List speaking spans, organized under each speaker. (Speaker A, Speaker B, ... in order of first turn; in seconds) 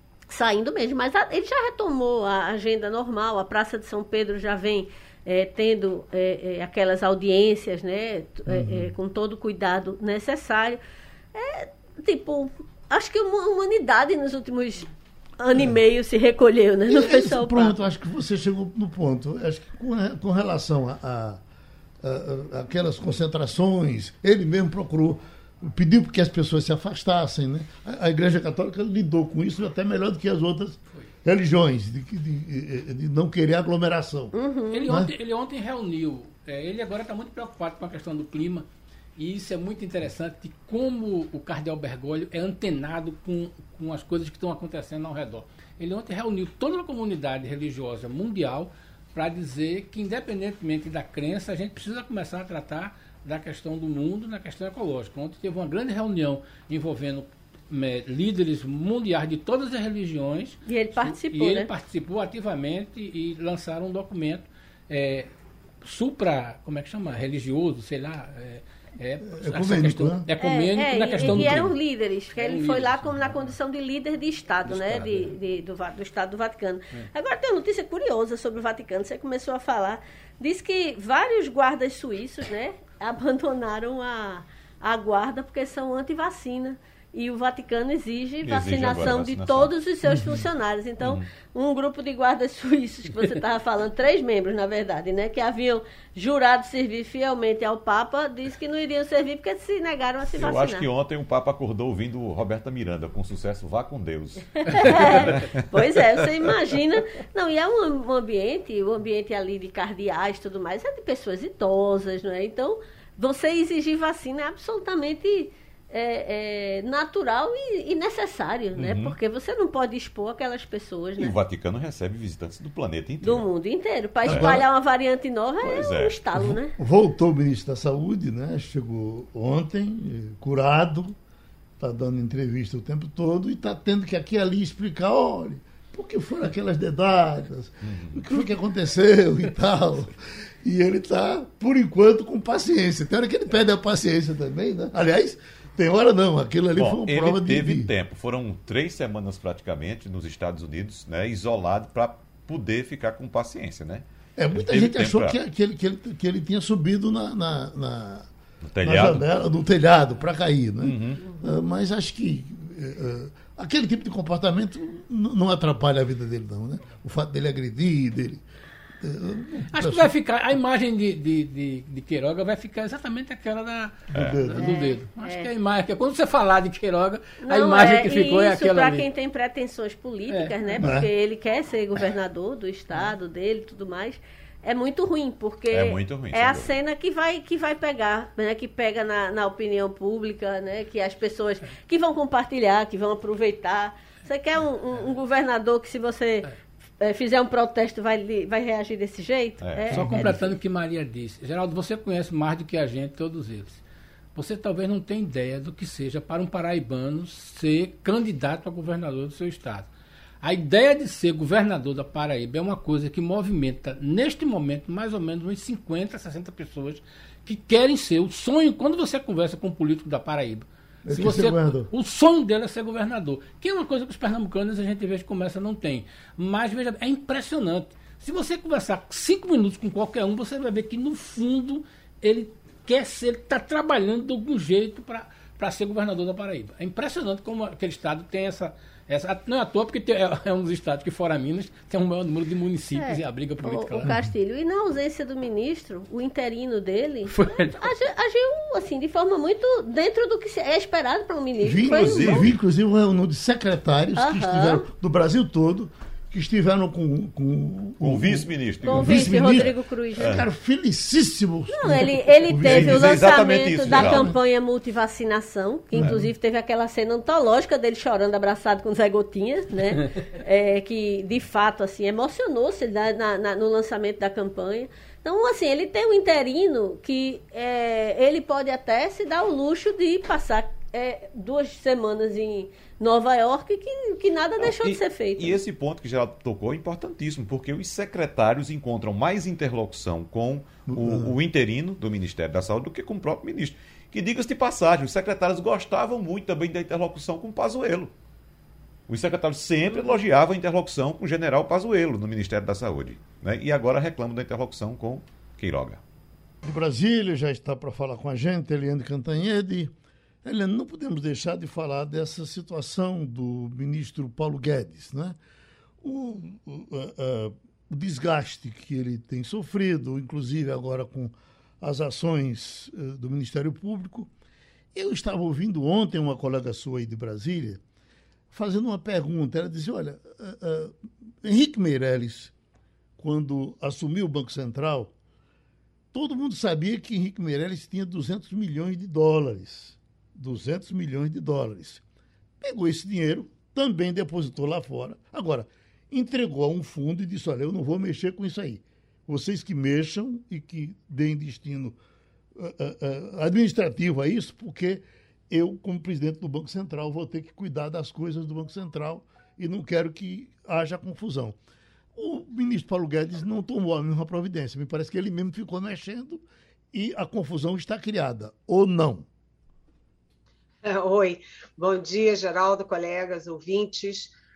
Speaker A: 0.3-10.8, 11.3-17.7, 34.3-34.9, 60.6-61.7, 70.4-100.8, 104.6-121.3, 123.2-126.7, 174.6-175.5, 177.4-200.1, 242.9-252.5, 254.2-254.8, 258.8-260.4, 261.7-285.6
Speaker B: 8.5-8.9, 16.9-21.4, 22.0-34.3, 69.2-70.3, 71.2-71.5, 124.2-124.6, 126.8-131.1, 131.8-147.9, 154.3-158.3, 158.8-168.4, 169.0-170.1, 174.1-174.7, 180.8-181.1, 199.9-200.4, 221.0-221.9, 251.6-263.2, 263.9-264.3, 290.9-291.4, 306.6-309.9, 310.4-315.4, 316.0-324.3, 324.9-327.8, 328.5-332.5, 333.2-335.1, 336.1-342.0, 342.6-352.0, 352.5-361.6, 362.1-369.3
Speaker C: 34.7-65.3, 65.8-71.7, 72.3-73.5, 169.7-179.1, 180.3-180.8, 199.9-203.8, 204.3-209.9, 210.4-244.1, 247.2-247.9
Speaker D: 74.7-75.3, 88.4-90.3, 91.0-91.3, 100.3-106.6, 118.7-119.2, 121.2-123.5, 124.2-124.6, 125.6-126.5, 137.8-138.2, 146.8-155.4, 158.7-159.2, 160.8-161.2, 174.1-174.4, 185.7-186.7, 199.6-200.0, 251.8-252.5, 258.0-260.4, 262.6-264.4, 265.9-266.2, 284.6-298.1, 299.1-306.0
Speaker E: 370.8-374.3